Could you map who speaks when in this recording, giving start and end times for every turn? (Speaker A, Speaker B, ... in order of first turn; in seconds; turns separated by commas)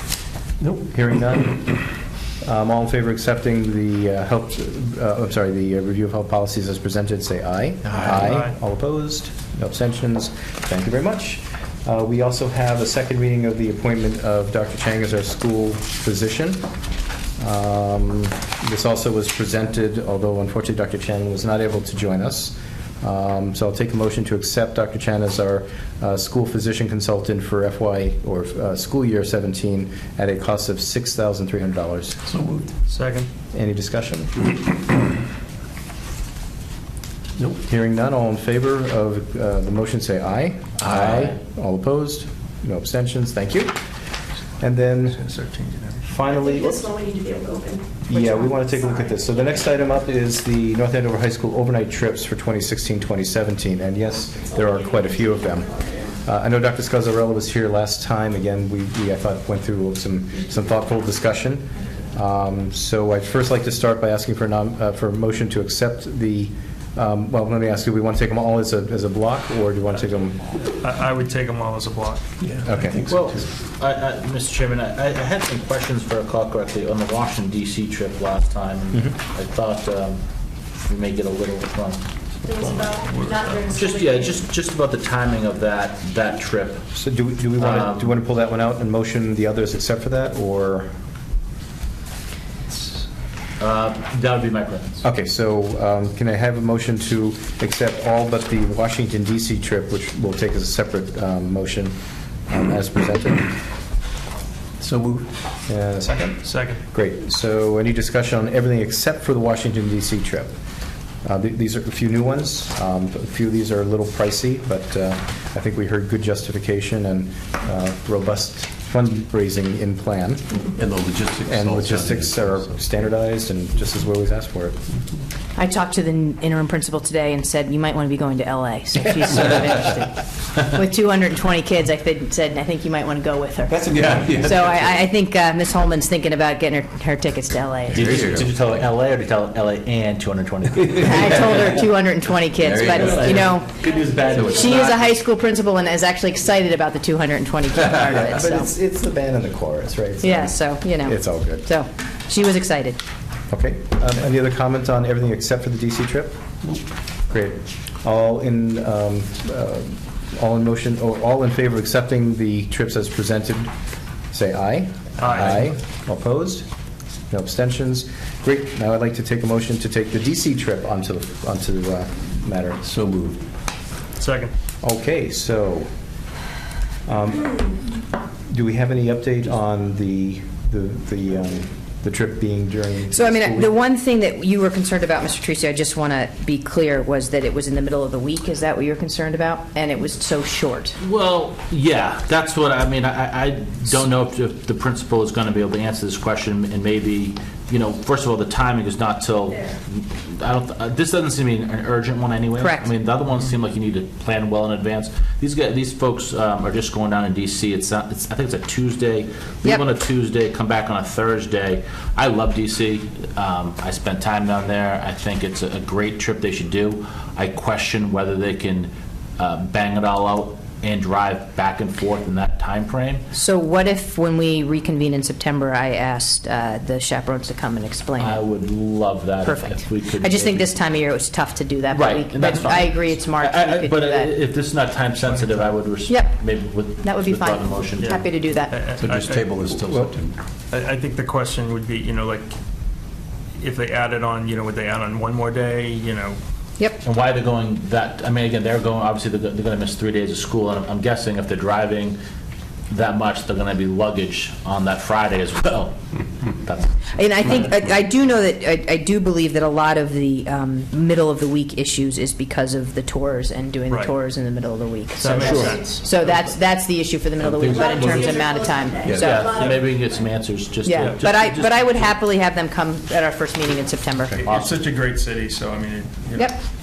Speaker A: 0.8-1.7, Speaker A: 2.4-16.7, Speaker B: 8.0-8.2, Speaker C: 8.2-8.5, Speaker A: 17.4-32.2, Speaker B: 32.3-32.7, Speaker C: 32.9-33.3, Speaker A: 33.5-34.4, Speaker A: 37.5-43.7, Speaker D: 40.9-41.3, Speaker A: 44.6-45.4, Speaker C: 45.3-46.0, Speaker A: 46.0-46.9, Speaker E: 46.2-49.8, Speaker A: 48.0-70.5, Speaker E: 54.5-56.1, Speaker C: 70.8-72.2, Speaker B: 72.4-73.4, Speaker A: 72.6-73.1, Speaker D: 73.1-80.2, Speaker D: 80.8-82.0, Speaker E: 82.4-84.4, Speaker C: 82.5-83.7, Speaker D: 83.7-86.8, Speaker A: 86.9-90.9, Speaker D: 87.6-88.1, Speaker D: 93.6-95.0, Speaker A: 95.0-101.9, Speaker A: 102.5-103.6, Speaker B: 104.8-105.3, Speaker A: 105.7-110.5, Speaker C: 106.3-106.8, Speaker A: 111.2-120.6, Speaker B: 120.8-122.6, Speaker A: 121.4-124.8, Speaker F: 125.5-138.1, Speaker B: 133.8-135.0, Speaker B: 137.9-138.5, Speaker D: 137.9-141.8, Speaker B: 140.9-141.2, Speaker F: 141.0-143.9, Speaker B: 142.6-143.6, Speaker D: 142.9-145.1, Speaker E: 143.8-144.8, Speaker B: 144.3-144.7, Speaker F: 144.5-148.7, Speaker A: 148.2-151.7, Speaker F: 150.2-153.0, Speaker A: 153.5-156.4, Speaker A: 157.3-163.7, Speaker A: 164.3-166.7, Speaker C: 165.2-165.6, Speaker A: 167.3-172.8, Speaker B: 172.8-173.4, Speaker C: 174.2-174.5, Speaker A: 174.8-175.9, Speaker A: 177.1-177.8, Speaker A: 178.5-183.8, Speaker F: 183.1-191.0, Speaker D: 191.0-223.2, Speaker F: 202.6-202.9, Speaker F: 223.3-228.4, Speaker D: 228.2-230.7, Speaker F: 229.4-234.3, Speaker D: 231.9-238.2, Speaker C: 235.3-235.6, Speaker F: 236.1-236.3, Speaker F: 237.0-238.9, Speaker C: 238.0-239.5, Speaker B: 239.0-240.4, Speaker A: 239.8-240.1, Speaker C: 240.7-242.5, Speaker C: 243.6-246.4, Speaker D: 247.0-252.2, Speaker D: 252.9-257.1, Speaker F: 257.1-269.7, Speaker C: 263.9-264.1, Speaker C: 265.1-266.4, Speaker D: 265.2-265.8, Speaker E: 265.4-265.9, Speaker D: 267.4-268.5, Speaker E: 267.7-270.2, Speaker B: 269.1-269.4, Speaker D: 269.1-272.1, Speaker F: 270.8-274.4, Speaker C: 270.9-271.2, Speaker C: 274.4-276.5, Speaker D: 274.4-274.8